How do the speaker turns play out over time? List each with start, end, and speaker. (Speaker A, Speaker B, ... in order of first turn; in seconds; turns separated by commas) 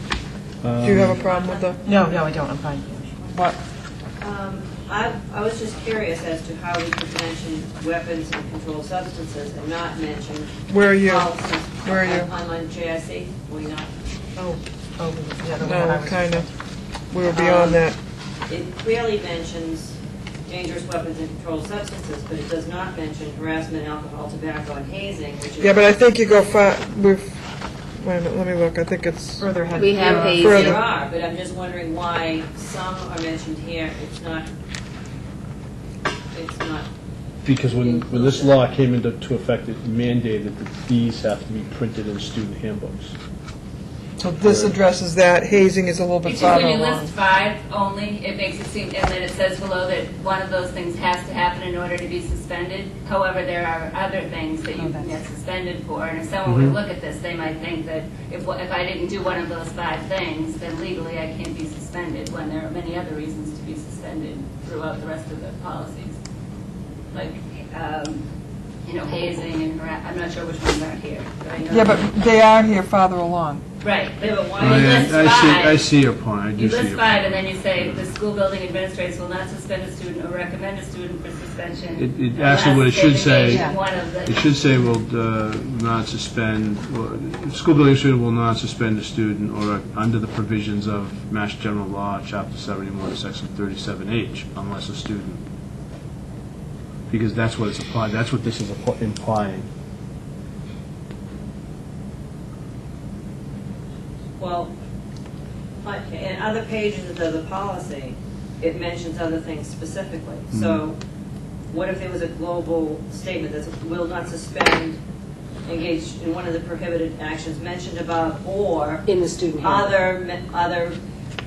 Speaker A: 0.6-1.2, Speaker B: 0.8-1.8, Speaker C: 1.1-2.6, Speaker D: 1.8-3.6, Speaker C: 4.2-13.9, Speaker B: 10.7-11.3, Speaker B: 11.8-12.3, Speaker D: 14.4-16.4, Speaker B: 15.6-16.5, Speaker B: 17.1-18.0, Speaker C: 17.3-17.8, Speaker C: 18.5-19.9, Speaker C: 20.5-26.0, Speaker B: 25.6-27.4, Speaker B: 28.0-29.4, Speaker D: 29.4-30.8, Speaker E: 29.8-30.9, Speaker B: 30.3-30.8, Speaker C: 30.3-34.5, Speaker C: 36.3-36.9, Speaker A: 37.4-43.1, Speaker C: 37.7-38.5, Speaker B: 44.2-47.1, Speaker A: 44.4-44.8, Speaker F: 46.2-66.2, Speaker D: 54.8-55.1, Speaker A: 56.4-56.8, Speaker F: 67.1-68.2, Speaker F: 68.8-72.1, Speaker B: 71.7-73.6, Speaker F: 73.8-75.9, Speaker C: 74.3-75.2, Speaker A: 74.6-78.0, Speaker F: 76.5-84.6, Speaker A: 82.0-83.7, Speaker D: 83.5-83.8, Speaker A: 84.2-95.4, Speaker A: 97.1-99.7, Speaker C: 104.4-104.7, Speaker C: 105.8-111.0, Speaker A: 110.5-110.8, Speaker C: 111.7-115.0, Speaker C: 115.7-119.1, Speaker E: 119.0-120.1, Speaker C: 119.6-121.0